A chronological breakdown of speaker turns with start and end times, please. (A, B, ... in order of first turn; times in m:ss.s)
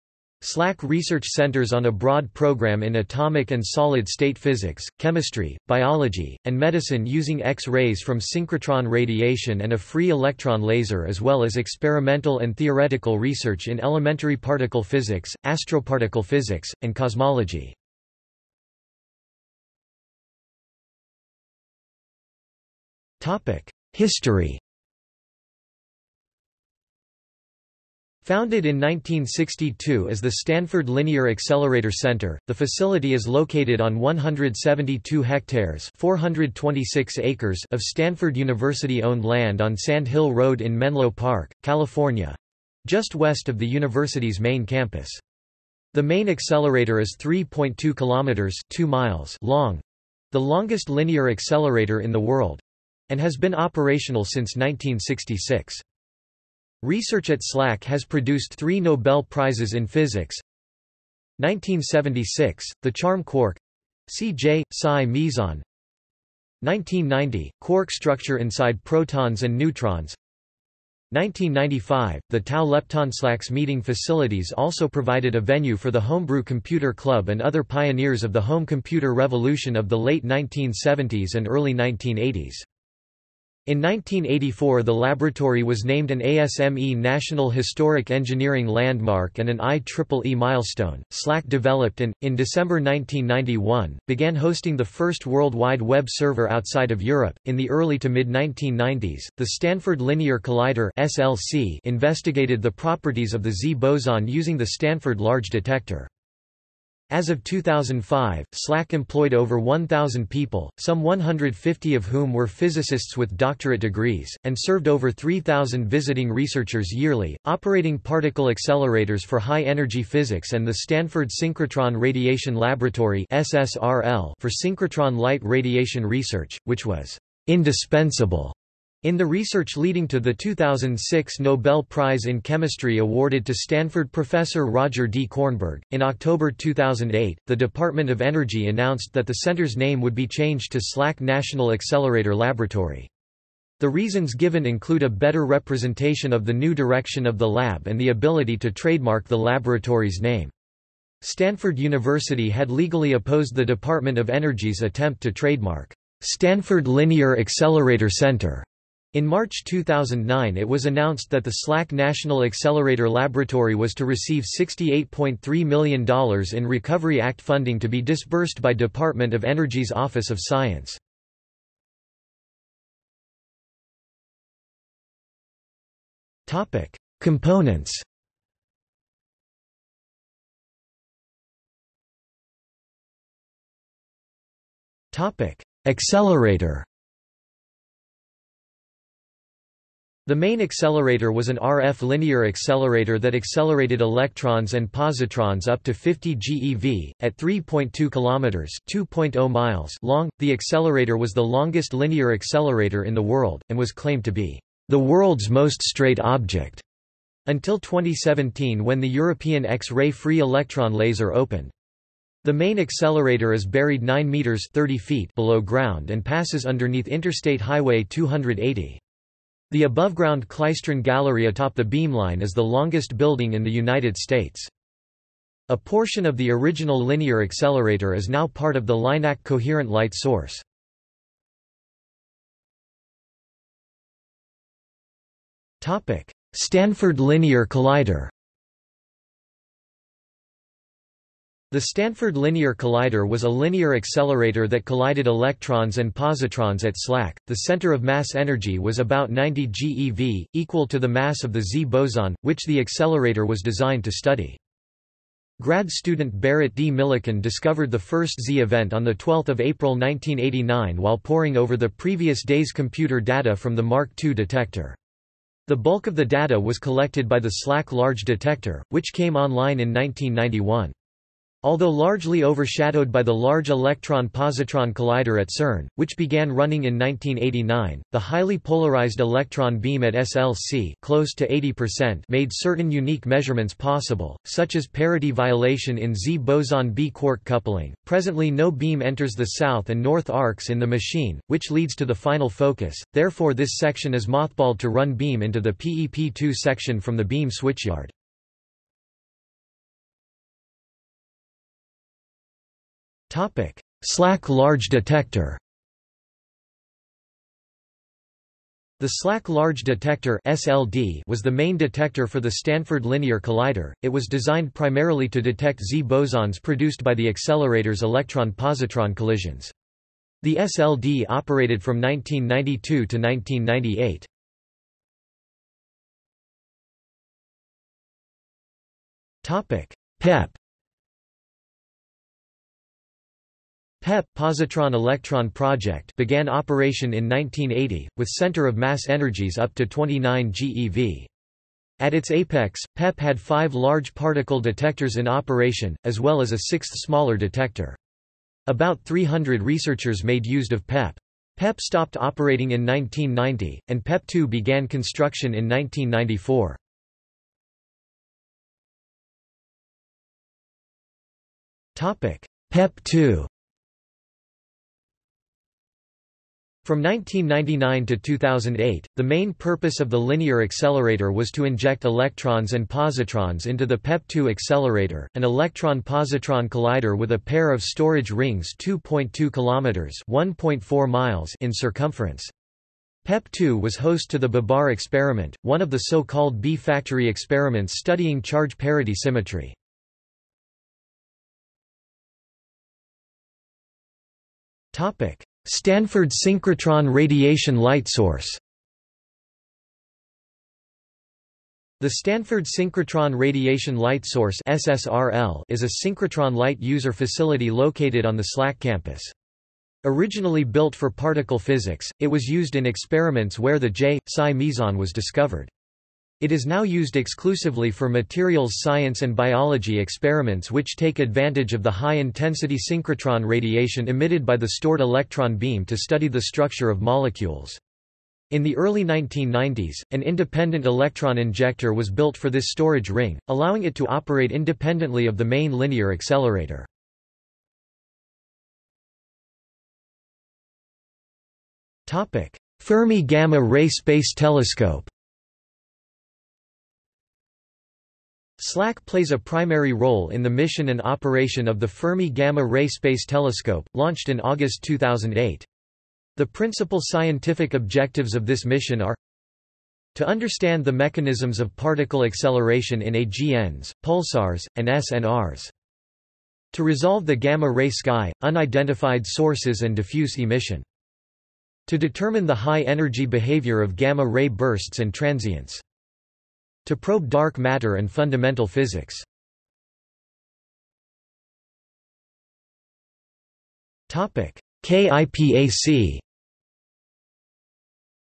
0:00.4-0:17.8 A
0:23.2-0:24.6 A
0:28.2-0:45.2 A
0:45.9-0:55.8 A
0:56.8-1:00.4 A
1:01.4-1:05.6 A
1:06.6-1:10.2 A
1:11.1-1:22.6 A
1:23.6-1:46.1 A
1:47.1-2:23.1 A
2:23.8-2:30.5 A
2:31.2-2:51.0 A
2:56.5-2:58.0 A
3:05.1-3:06.9 A
3:10.2-3:26.8 A
3:27.4-3:31.7 A
3:32.4-3:39.0 A
3:39.7-3:44.7 A
3:45.7-3:50.6 A
3:55.8-3:58.3 A
4:01.7-4:14.6 A
4:15.6-4:25.0 A
4:25.7-4:30.9 A
4:31.6-4:58.1 A
5:03.3-5:05.6 A
5:09.0-5:19.7 A
5:20.4-5:24.3 A
5:29.4-5:30.6 A
5:34.0-5:41.3 A
5:42.0-5:48.0 A
5:48.6-5:56.8 A
6:01.9-6:03.5 A
6:06.8-6:22.5 A
6:23.2-6:29.8 A
6:34.9-6:38.6 A
6:42.0-6:49.3 A
6:50.0-6:55.7 A
6:56.4-7:07.8 A
7:08.5-7:16.9 A
7:22.0-7:25.1 A
7:28.6-7:35.6 A
7:36.4-7:39.2 A
7:40.1-7:45.7 A
7:46.7-7:50.8 A
7:51.9-7:55.8 A
7:56.8-7:59.2 A
8:04.1-8:06.2 A